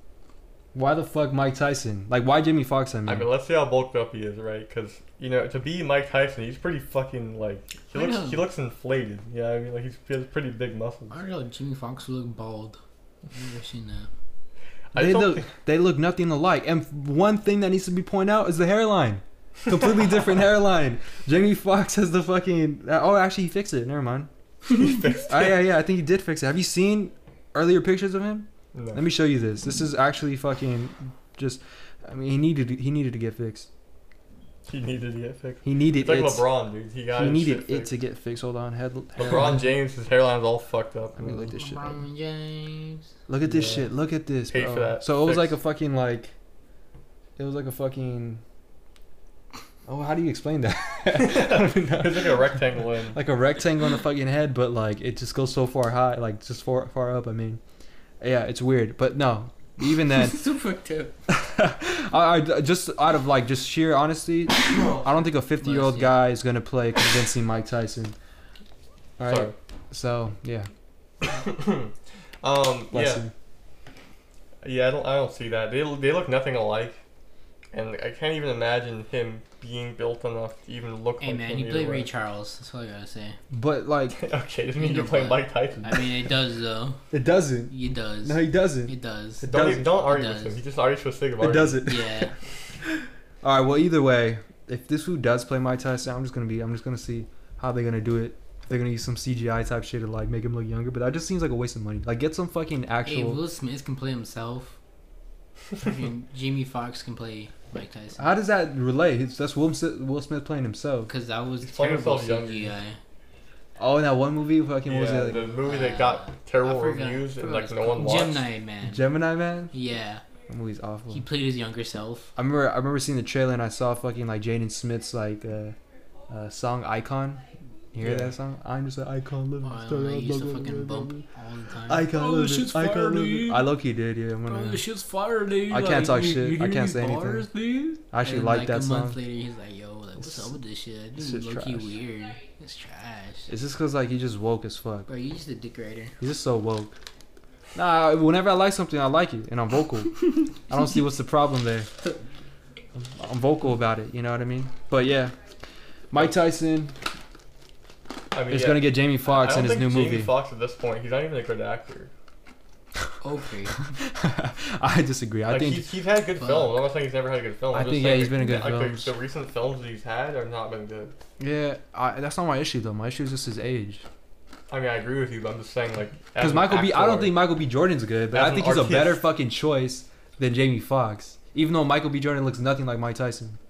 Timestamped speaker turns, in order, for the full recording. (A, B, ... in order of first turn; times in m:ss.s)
0:00.7-0:03.3 A
0:03.1-0:11.2 B
0:07.9-0:08.4 C
0:11.1-0:12.8 C
0:13.3-0:14.1 C
0:14.9-0:15.5 B
0:15.0-0:24.3 A
0:24.7-0:25.6 B
0:25.3-0:33.7 A
0:28.7-0:29.0 B
0:34.7-0:37.9 B
0:35.6-0:36.5 A
0:37.2-0:39.6 A
0:39.2-0:41.3 B
0:41.2-0:42.0 A
0:41.4-0:43.0 C
0:43.3-0:46.3 A
0:43.4-0:43.9 B
0:44.5-0:45.6 B
0:47.4-0:48.4 A
0:49.9-0:52.5 A
0:51.2-0:53.2 B
0:53.1-0:57.6 A
0:58.2-1:00.5 A
0:59.9-1:01.1 C
1:01.3-1:08.2 A
1:05.6-1:06.2 C
1:09.2-1:10.7 A
1:09.3-1:09.5 B
1:11.2-1:13.2 B
1:12.9-1:13.3 A
1:14.6-1:17.0 B
1:17.7-1:22.1 B
1:21.2-1:23.4 C
1:23.5-1:24.2 A
1:24.2-1:26.1 B
1:24.8-1:27.0 C
1:27.1-1:29.9 A
1:27.7-1:29.5 C
1:29.4-1:31.8 B
1:30.0-1:30.6 C
1:31.4-1:32.3 A
1:31.8-1:32.3 C
1:32.8-1:43.4 A
1:43.0-1:44.8 C
1:45.8-1:48.3 C
1:48.2-1:51.1 A
1:51.1-1:53.0 C
1:51.6-1:52.7 B
1:53.8-1:55.4 A
1:54.9-1:58.4 B
1:55.6-1:59.2 C
1:58.8-1:59.7 A
1:59.7-2:00.2 C
2:00.5-2:01.3 A
2:01.1-2:02.3 C
2:02.4-2:05.8 A
2:06.3-2:11.2 A
2:08.0-2:08.3 B
2:09.6-2:13.7 C
2:11.9-2:14.8 A
2:14.4-2:23.5 C
2:15.7-2:17.5 A
2:18.1-2:19.2 A
2:21.2-2:22.0 A
2:23.5-2:25.1 A
2:25.1-2:26.2 C
2:26.2-2:26.9 A
2:27.8-2:31.9 A
2:33.0-2:35.4 A
2:36.1-2:37.0 A
2:38.3-2:42.1 B
2:38.5-2:40.3 A
2:43.2-2:43.8 C
2:43.8-2:45.9 A
2:45.5-2:51.1 B
2:46.4-2:46.8 C
2:47.7-2:49.1 A
2:51.4-2:54.0 A
2:54.7-2:57.4 B
2:56.4-3:03.6 A
2:58.3-2:59.2 B